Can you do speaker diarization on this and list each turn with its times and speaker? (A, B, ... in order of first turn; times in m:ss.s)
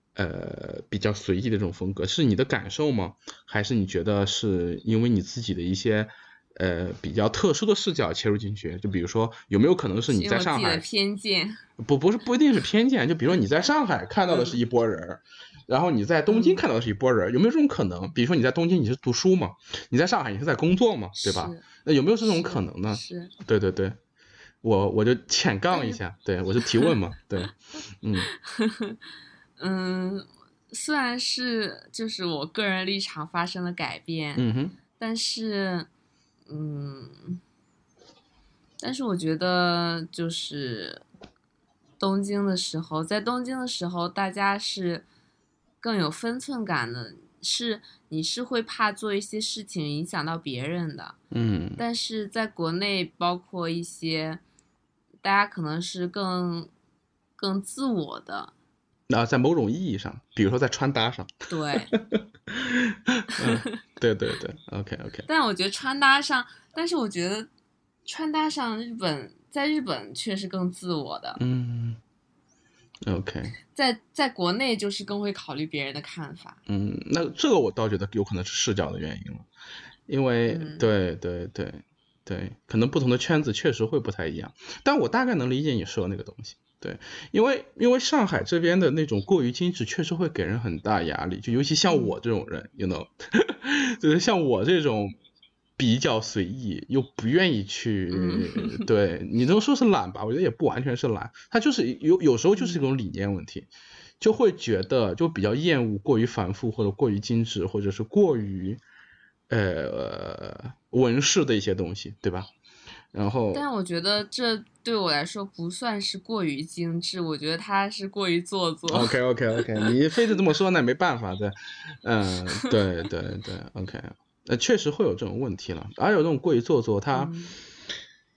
0:00.1-0:10.8 A
0:10.1-0:11.6 B
0:11.8-0:24.0 A
0:14.3-0:14.6 B
0:16.3-0:16.6 B
0:21.2-0:21.6 B
0:22.2-0:23.3 B
0:24.6-0:28.3 A
0:26.6-0:26.9 B
0:28.4-0:29.0 B
0:29.6-0:34.4 B
0:34.4-0:34.8 A
0:35.0-0:35.9 B
0:36.5-0:37.4 B
0:38.8-0:41.0 B
0:42.0-0:45.0 B
0:45.8-0:51.2 B
0:51.3-0:51.8 A
0:51.8-0:54.4 B
0:55.2-0:56.7 B
0:57.4-0:58.5 B
0:59.1-1:05.3 A
1:01.5-1:01.9 B
1:03.4-1:03.8 B
1:05.3-1:07.5 B
1:08.0-1:11.4 B
1:11.4-1:12.0 A
1:13.0-1:13.5 A
1:13.7-1:16.6 B
1:16.7-1:19.5 A
1:20.1-1:35.2 A
1:20.5-1:20.9 B
1:31.9-1:32.2 B
1:35.8-1:43.7 A
1:38.1-1:38.8 B
1:42.6-1:42.8 B
1:44.2-1:48.8 A
1:49.5-1:52.5 A
1:53.1-1:53.6 A
1:53.5-1:59.9 B
1:58.9-2:07.3 A
2:07.1-2:07.5 B